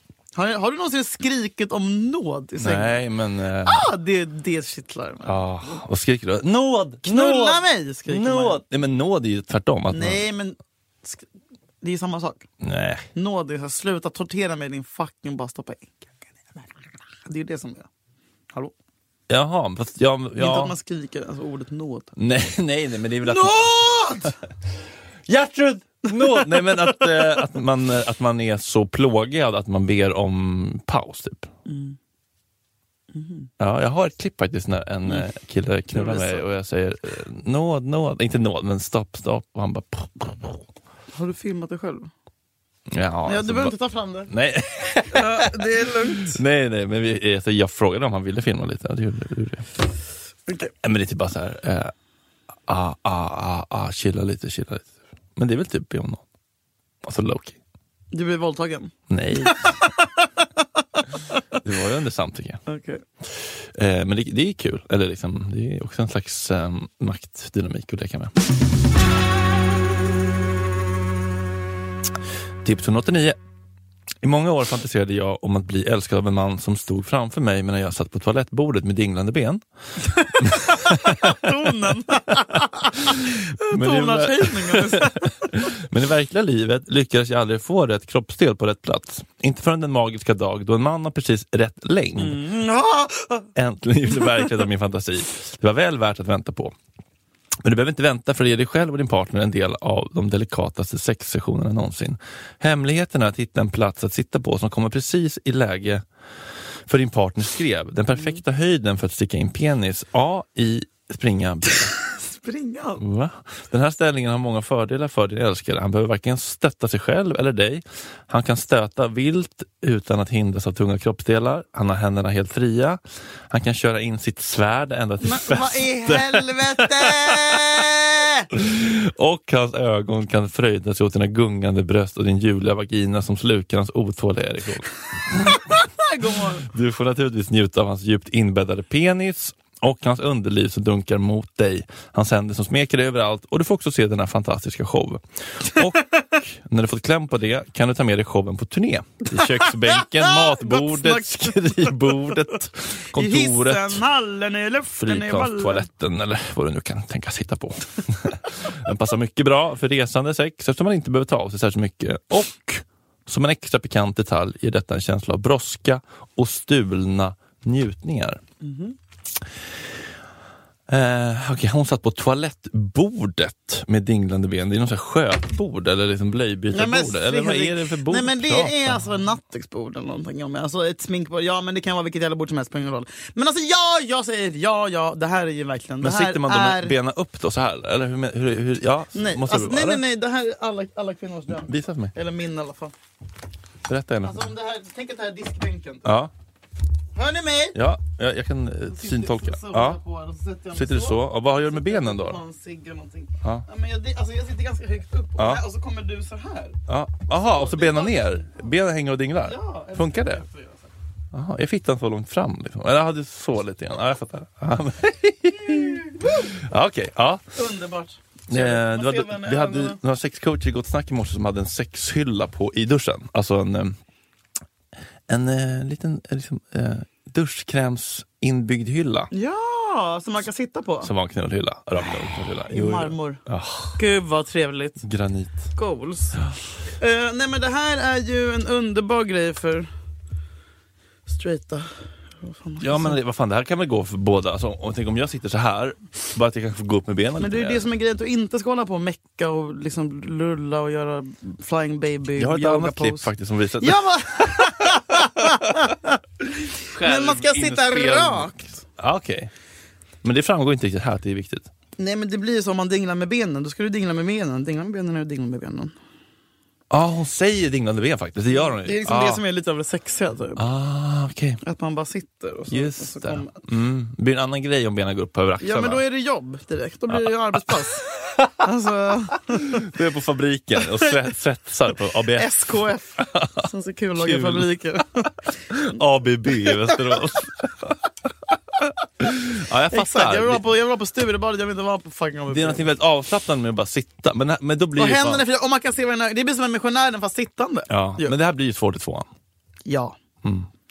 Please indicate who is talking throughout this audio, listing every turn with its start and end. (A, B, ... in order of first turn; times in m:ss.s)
0:00.4-0:03.0 A
0:02.6-0:03.9 B
0:03.6-0:05.4 A
0:05.2-0:10.3 B
0:07.0-0:08.6 A
0:09.9-0:11.3 A
0:11.8-0:12.5 A
0:12.6-0:13.1 B
0:13.2-0:16.7 A
0:17.2-0:17.9 A
0:19.3-0:20.8 B
0:20.4-0:22.1 A
0:22.2-0:23.6 B
0:23.2-0:24.4 A
0:25.3-0:31.5 B
0:26.1-0:26.9 A
0:31.7-0:32.0 A
0:33.1-0:33.5 A
0:33.6-0:40.6 B
0:35.9-0:36.5 A
0:41.1-0:42.1 A
0:42.9-0:43.8 B
0:43.3-0:44.3 A
0:44.3-0:45.7 B
0:45.1-0:46.4 A
0:46.2-0:49.7 B
0:50.5-0:50.7 A
0:50.8-0:51.9 B
0:52.7-0:56.2 B
0:57.0-0:57.6 B
0:58.1-1:00.4 A
0:59.1-0:59.8 B
1:01.6-1:02.6 B
1:02.7-1:03.0 A
1:03.2-1:08.3 B
1:12.6-1:13.4 B
1:14.2-1:19.6 B
1:20.0-1:25.6 A
1:20.4-1:21.5 B
1:23.0-1:32.4 B
1:32.2-1:33.5 A
1:33.6-1:36.8 B
1:34.2-1:34.5 A
1:37.6-1:46.0 B
1:46.9-1:51.9 B
1:52.1-1:53.0 A
1:53.0-2:07.8 B
2:05.2-2:08.5 A
2:08.5-2:15.6 B
2:15.4-2:16.7 A
2:16.6-2:34.0 B
2:29.3-2:32.4 A
2:33.1-2:35.9 A
2:35.0-2:48.4 B
2:48.6-2:49.0 A
2:50.9-2:59.0 B
2:56.7-3:07.0 A
3:06.0-3:10.0 B
3:09.1-3:12.9 A
3:11.6-3:12.1 B
3:13.9-3:14.5 B
3:14.2-3:16.1 A
3:16.0-3:16.3 B
3:17.2-3:17.8 A
3:17.8-3:20.0 B
3:18.9-3:28.3 A
3:20.7-3:22.4 B
3:25.4-3:25.6 B
3:26.9-3:30.4 B
3:29.4-3:30.9 A
3:31.3-3:37.4 B
3:35.9-3:36.5 A
3:37.5-3:40.0 A
3:38.5-3:44.0 B
3:45.3-3:49.3 B
3:49.3-3:51.1 A
3:51.0-3:54.0 B
3:52.7-3:53.4 A
3:54.0-3:55.0 A
3:55.0-3:55.7 B
3:55.8-3:56.4 A
3:57.0-3:59.9 A
4:01.3-4:03.2 A
4:02.8-4:07.9 B
4:07.4-4:13.3 A
4:12.4-4:15.6 B
4:13.8-4:18.8 A
4:16.9-4:19.5 B
4:20.2-4:21.7 B
4:22.0-4:25.9 A
4:26.9-4:29.4 B
4:28.5-4:30.7 A
4:30.6-4:31.6 B
4:31.6-4:33.6 A
4:32.7-4:36.0 B
4:35.6-4:39.9 A
4:37.1-4:38.5 B
4:39.5-4:42.5 B
4:42.3-4:45.8 A
4:43.2-4:44.7 B
4:45.7-4:48.0 B
4:46.7-4:47.2 A
4:49.2-4:50.7 B
4:49.9-4:52.9 A
4:52.5-4:55.5 B
4:55.0-4:58.4 A
4:57.9-4:59.3 B
4:59.9-5:00.2 A